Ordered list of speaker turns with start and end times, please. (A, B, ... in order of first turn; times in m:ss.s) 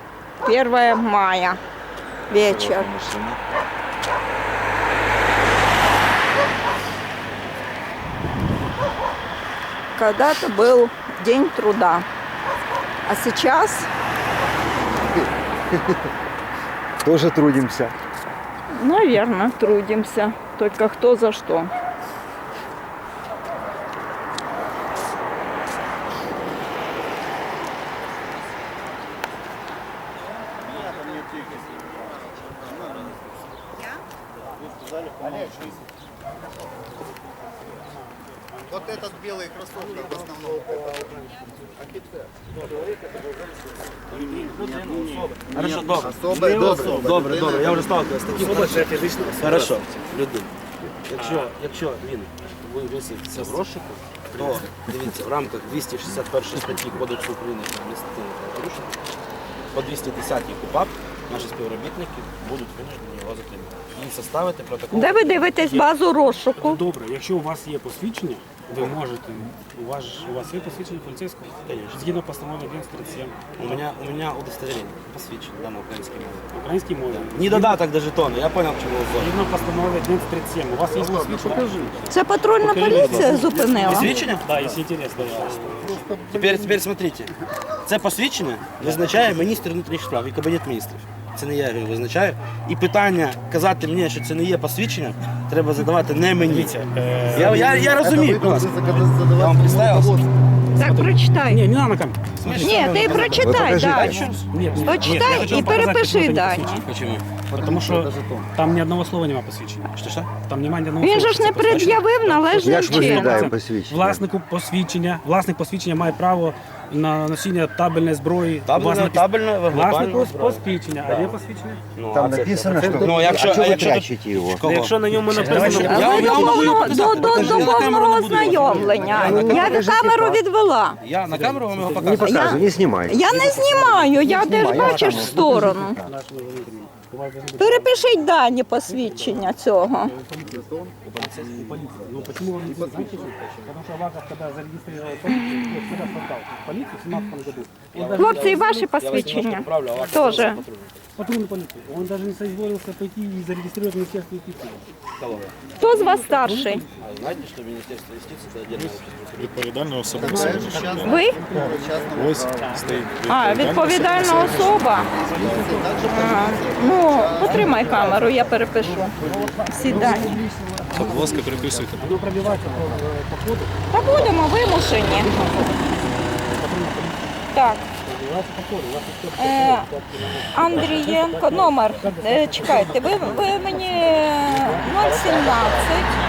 0:00.4-0:01.6 A
0:02.3-0:03.0 A
0:10.0-0:12.1 A
0:13.1-0:13.9 A
0:17.0-0:17.9 B
0:18.7-0:21.7 A
0:30.8-0:33.2 C
0:35.1-0:35.8 C
0:38.7-0:42.5 C
0:44.1-0:49.8 C
0:44.1-0:50.5 D
0:46.3-0:47.1 E
0:48.3-0:49.8 E
0:51.0-0:58.9 D
0:59.7-1:05.6 D
1:04.9-1:06.8 A
1:05.6-1:05.9 E
1:06.6-1:13.8 E
1:11.6-1:12.0 D
1:13.6-1:16.5 D
1:16.5-1:17.8 E
1:17.1-1:19.3 D
1:19.2-1:26.0 E
1:21.0-1:21.9 C
1:22.1-1:24.1 A
1:23.9-1:24.4 D
1:25.6-1:26.8 C
1:26.3-1:27.3 D
1:27.8-1:40.2 D
1:36.4-1:37.7 E
1:37.2-1:37.5 F
1:37.4-1:40.3 C
1:40.8-1:43.6 E
1:40.8-1:41.6 A
1:42.4-1:46.0 D
1:42.6-1:44.3 A
1:43.4-1:44.2 B
1:44.5-1:46.8 E
1:44.6-1:45.2 C
1:44.8-1:46.8 A
1:46.8-1:47.2 D
1:47.5-1:48.5 C
1:47.6-1:49.9 E
1:50.0-1:50.3 D
1:50.4-2:01.8 E
1:51.0-1:53.5 A
1:52.6-1:54.2 B
1:58.7-2:01.4 D
2:02.0-2:09.9 D
2:02.1-2:04.7 B
2:02.7-2:03.4 E
2:04.6-2:07.8 E
2:05.6-2:11.0 A
2:05.8-2:06.3 C
2:07.2-2:07.6 B
2:08.4-2:09.5 E
2:09.2-2:10.4 B
2:11.0-2:12.7 D
2:11.3-2:12.6 E
2:12.1-2:13.2 B
2:12.2-2:16.0 A
2:13.2-2:18.0 E
2:14.3-2:16.1 B
2:17.6-2:20.1 A
2:18.9-2:19.5 E
2:20.0-2:28.9 E
2:20.3-2:21.0 C
2:21.0-2:22.4 D
2:22.6-2:23.6 C
2:25.3-2:25.6 A
2:27.9-2:31.1 D
2:28.2-2:30.6 A
2:31.2-2:34.8 E
2:35.2-2:35.5 D
2:35.8-2:36.8 A
2:35.8-2:36.9 E
2:37.0-2:39.6 D
2:39.3-2:44.8 F
2:40.2-2:43.1 C
2:40.2-2:42.2 E
2:41.0-2:41.4 A
2:43.3-2:45.1 A
2:44.2-2:53.1 C
2:45.3-2:46.3 E
2:46.0-2:49.2 A
2:47.4-2:48.2 E
2:47.7-2:48.2 D
2:48.9-2:50.4 E
2:49.7-2:50.3 A
2:49.9-2:50.2 F
2:50.9-2:52.2 F
2:52.0-3:05.8 E
2:53.9-2:55.5 A
2:57.5-2:57.8 A
2:59.4-2:59.9 A
3:00.5-3:06.2 A
3:05.0-3:05.9 D